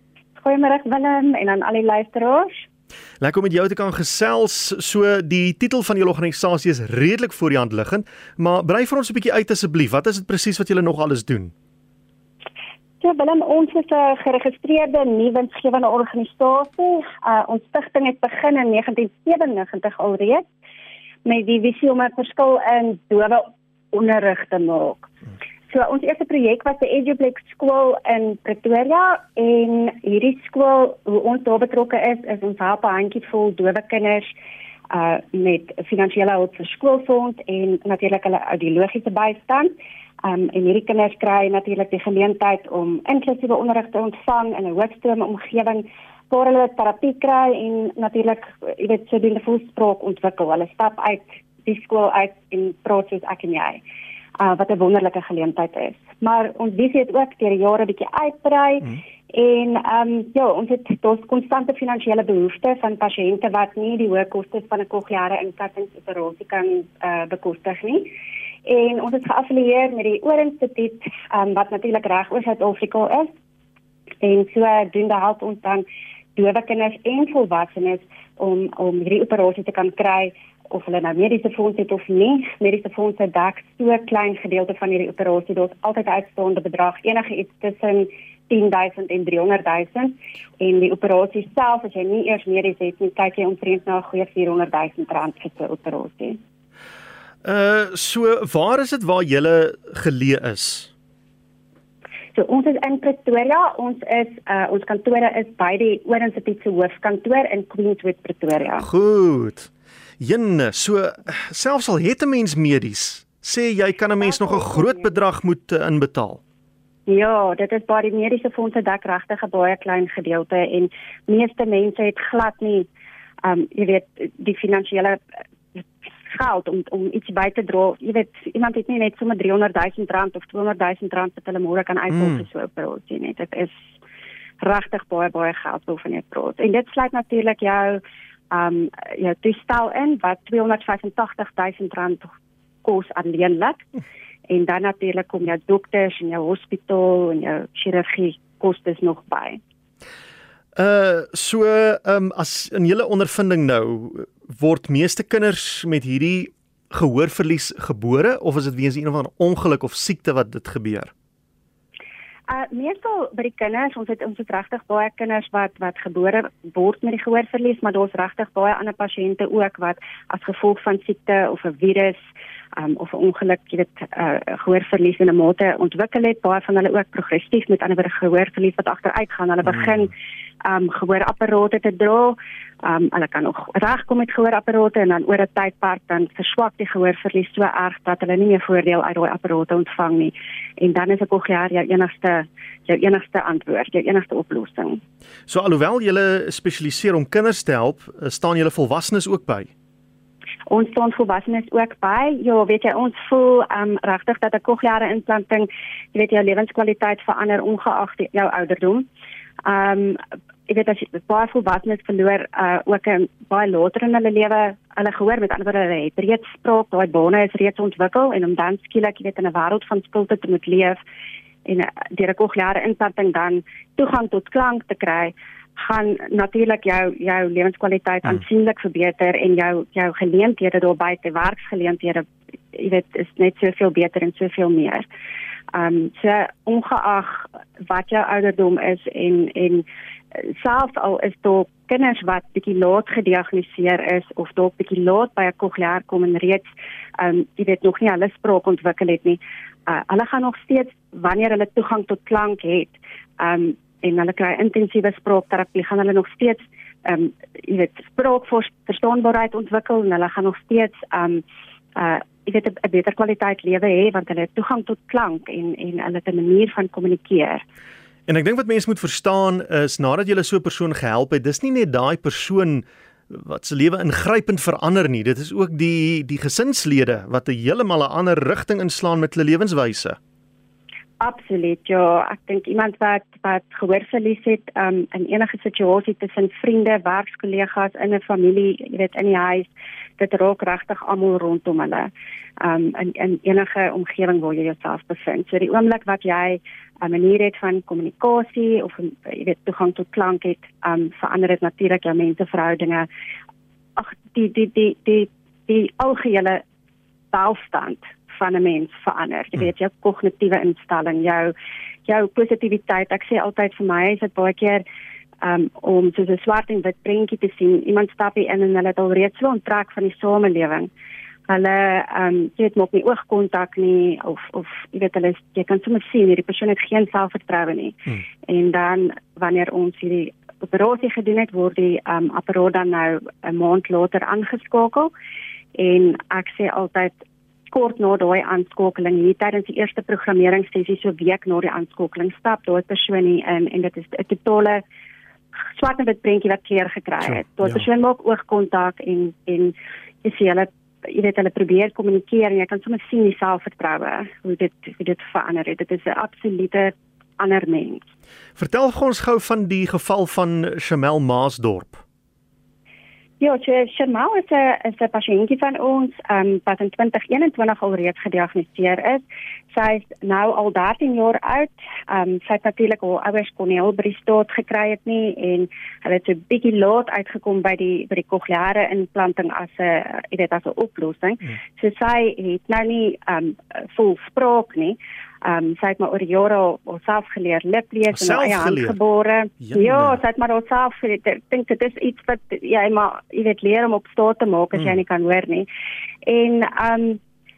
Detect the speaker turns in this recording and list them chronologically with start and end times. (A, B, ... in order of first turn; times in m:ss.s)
0:00.4-0:02.7 A
0:03.2-0:11.5 B
0:13.0-0:20.5 A
0:21.2-0:25.1 A
0:25.7-0:34.3 A
0:34.9-0:39.7 A
0:40.2-0:53.8 A
0:54.4-1:08.1 A
1:08.6-1:13.3 A
1:14.2-1:15.8 A
1:16.4-1:36.4 A
1:37.4-1:40.9 B
1:42.3-1:48.8 A
1:48.8-1:56.4 B
1:54.2-1:55.1 A
1:57.1-2:02.9 A
2:03.4-2:05.2 A
2:05.8-2:13.8 A
2:14.6-2:22.3 A
2:22.8-2:23.8 A
2:24.5-2:29.6 A
2:30.8-2:41.1 B
2:42.5-2:52.2 A
2:52.7-3:15.0 A
3:15.5-3:19.7 B
3:20.7-3:29.1 A
3:29.6-3:41.0 A
3:41.6-3:55.1 A
3:55.7-4:21.4 A
4:21.9-4:27.6 A
4:28.3-4:40.2 B
4:41.2-5:03.1 A
5:04.0-5:06.6 A
5:07.3-5:11.5 A
5:12.0-5:14.8 A
5:15.4-5:20.9 A
5:21.5-5:35.1 A
5:35.7-5:37.2 A
5:37.7-5:44.8 A
5:45.6-5:58.0 A
5:58.6-6:02.0 B
6:03.4-6:35.7 A
6:28.1-6:29.0 B
6:29.6-6:30.2 B
6:36.2-6:37.2 A